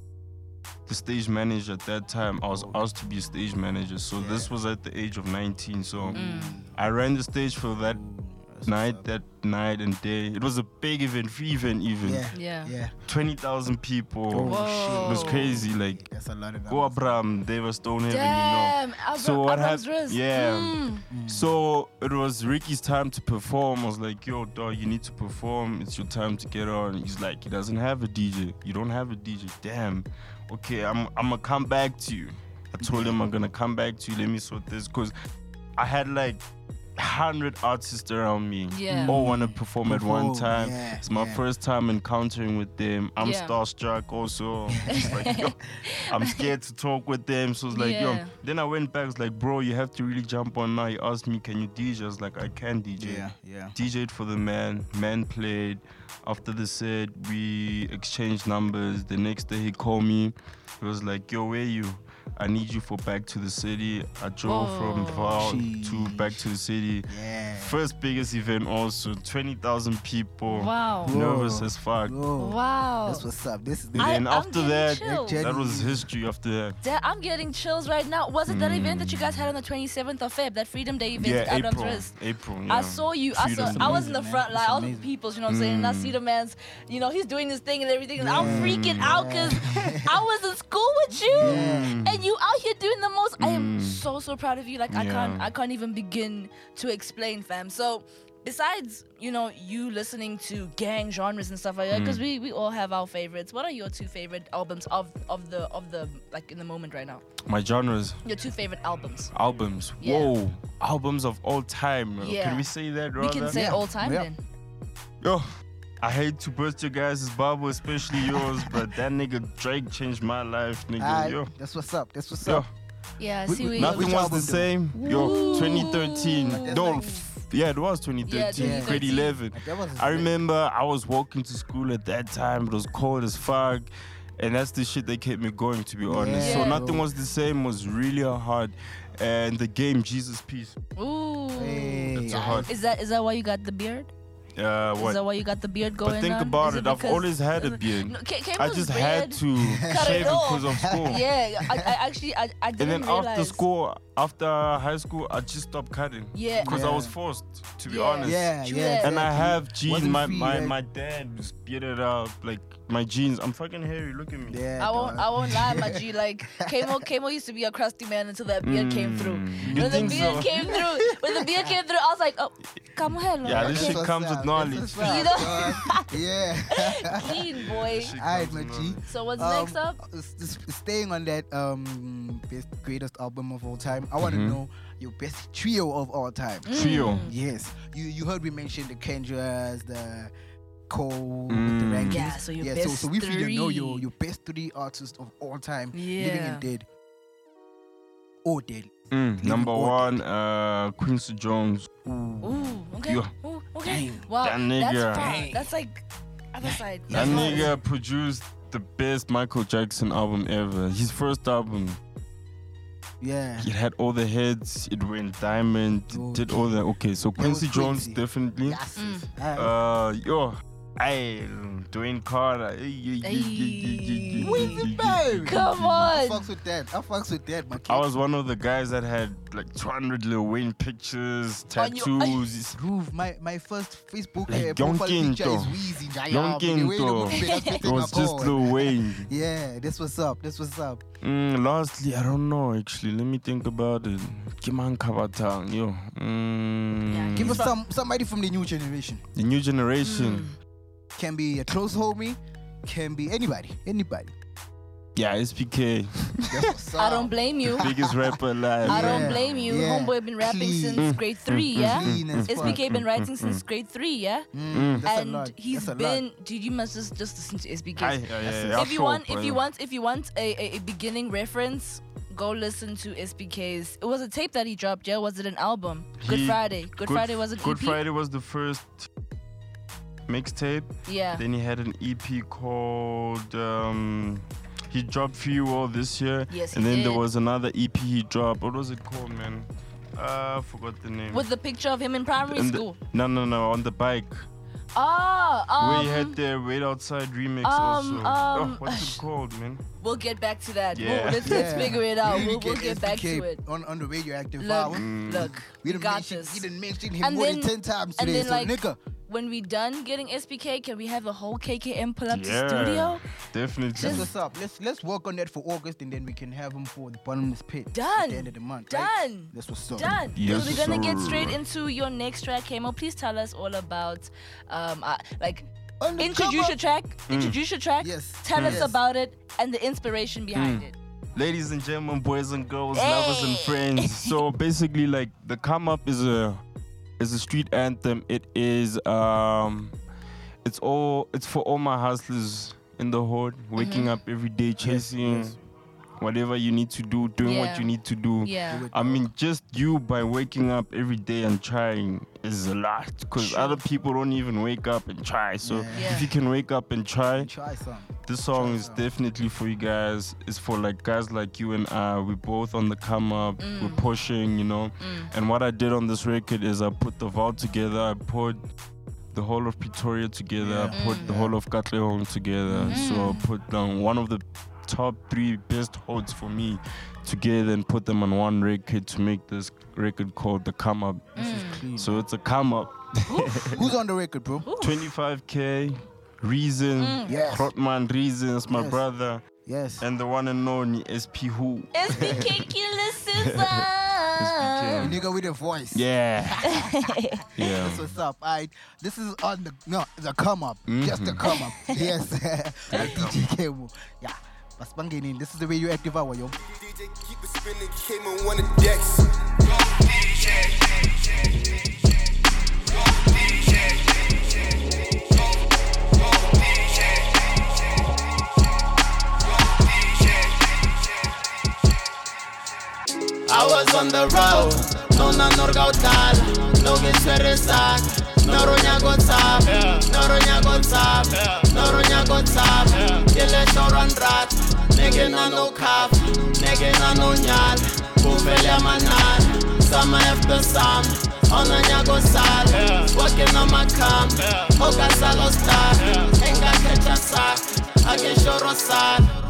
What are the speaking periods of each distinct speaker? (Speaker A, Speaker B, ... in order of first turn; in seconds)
Speaker A: 0.9-8.0, 8.7-12.3, 13.1-16.0, 16.7-35.1, 35.8-36.4, 37.0-45.6, 46.1-72.2, 73.9-76.8, 78.5-79.5, 81.2-84.2, 85.5-86.2, 88.3-89.5, 91.4-92.2, 93.4-94.0, 94.9-95.5, 101.9-102.2, 107.5-108.2, 109.3-113.6, 116.0-121.5, 123.7-140.8, 142.2-142.7, 144.6-145.2, 146.0-151.2, 152.8-164.6, 168.6-170.7, 173.4-175.4, 177.5-179.1, 184.2-184.6, 186.7-187.3, 191.5-192.3, 199.1-202.1, 203.1-203.3, 204.4-205.4, 207.1-212.0, 213.6-218.8, 219.6-226.1, 227.8-232.8, 234.5-239.3, 241.2-247.7, 249.4-250.5, 255.2-256.7, 257.7-259.8, 261.0-263.6, 264.7-265.1, 268.0-269.6, 276.2-279.1, 280.3-291.5, 292.5-294.4, 295.8-299.8, 300.9-302.0, 304.9-305.6, 312.3-314.3, 320.4-321.6, 327.3-327.6, 328.6-328.9, 330.6-336.6, 337.2-340.0, 340.6-345.6, 346.2-357.5, 358.3-368.7, 369.3-383.8, 384.8-389.4, 390.0-392.7, 393.4-393.9, 394.4-395.2, 395.9-396.7, 397.6-398.1, 400.9-401.6, 402.9-403.5
Speaker B: 2.5-2.8, 4.2-4.5, 6.0-6.8, 7.8-9.1, 12.0-12.9, 14.3-17.2, 21.1-21.6, 32.8-33.2, 38.9-41.4, 44.7-45.3, 53.0-53.8, 65.3-66.5, 67.1-67.8, 71.0-74.2, 75.2-76.1, 83.6-85.1, 88.2-90.2, 91.3-92.0, 113.5-114.3, 118.3-118.6, 121.0-122.7, 123.5-127.2, 128.6-130.4, 136.1-137.1, 141.6-142.7, 149.6-151.9, 156.6-157.2, 158.2-160.8, 164.5-166.1, 166.7-167.0, 169.6-171.7, 173.4-177.5, 178.2-190.3, 190.9-196.9, 198.4-200.2, 202.1-202.4, 203.8-204.3, 205.2-205.7, 206.6-207.8, 213.2-213.7, 216.1-216.8, 217.3-219.7, 224.4-228.1, 232.7-241.0, 247.3-249.2, 251.2-254.3, 256.5-261.2, 261.8-262.8, 264.5-266.2, 268.4-268.8, 301.4-309.0, 314.0-321.1, 326.0-326.8, 328.0-328.9, 344.8-345.6, 348.7-349.3, 355.6-356.3, 357.3-359.1, 370.6-371.6, 372.7-373.1, 381.4-382.2, 383.7-384.7, 387.2-387.7, 388.7-389.0, 389.6-390.1, 395.0-406.6
Speaker C: 6.2-6.6, 12.3-12.7, 14.5-15.6, 18.1-21.0, 38.7-39.2, 43.2-43.5, 44.9-46.5, 47.7-48.3, 64.4-65.6, 70.5-71.2, 72.4-73.2, 74.0-75.5, 76.8-82.2, 82.7-107.2, 108.2-109.3, 110.0-110.3, 112.2-114.4, 123.2-124.3, 125.0-127.2, 128.3-129.4, 136.4-136.9, 141.0-144.1, 145.0-153.6, 156.3-156.8, 157.9-159.2, 164.8-174.1, 175.0-176.1, 176.8-178.2, 179.1-180.0, 186.7-187.3, 192.1-194.1, 195.9-196.7, 202.4-207.7, 219.0-219.3, 223.2-224.8, 225.4-226.5, 231.8-232.4, 237.3-237.8, 247.1-247.7, 250.0-250.6, 257.0-257.9, 258.9-264.5, 265.0-278.0, 281.1-281.4, 286.5-287.2, 291.3-293.0, 295.0-296.4, 297.6-299.2, 300.0-303.6, 304.6-306.7, 307.2-308.8, 309.3-313.2, 314.0-314.3, 317.9-325.7, 326.2-330.9, 332.9-334.3, 343.8-344.2, 347.4-348.9, 353.4-353.8, 355.9-356.3, 363.6-364.0, 365.0-365.3, 370.9-371.3, 372.9-373.5, 381.4-381.9, 383.3-383.8, 384.6-385.1, 387.0-387.4, 391.9-395.1, 396.7-397.4, 401.4-402.0
Speaker D: 406.6-410.9, 413.1-413.5
Speaker E: 423.5-449.4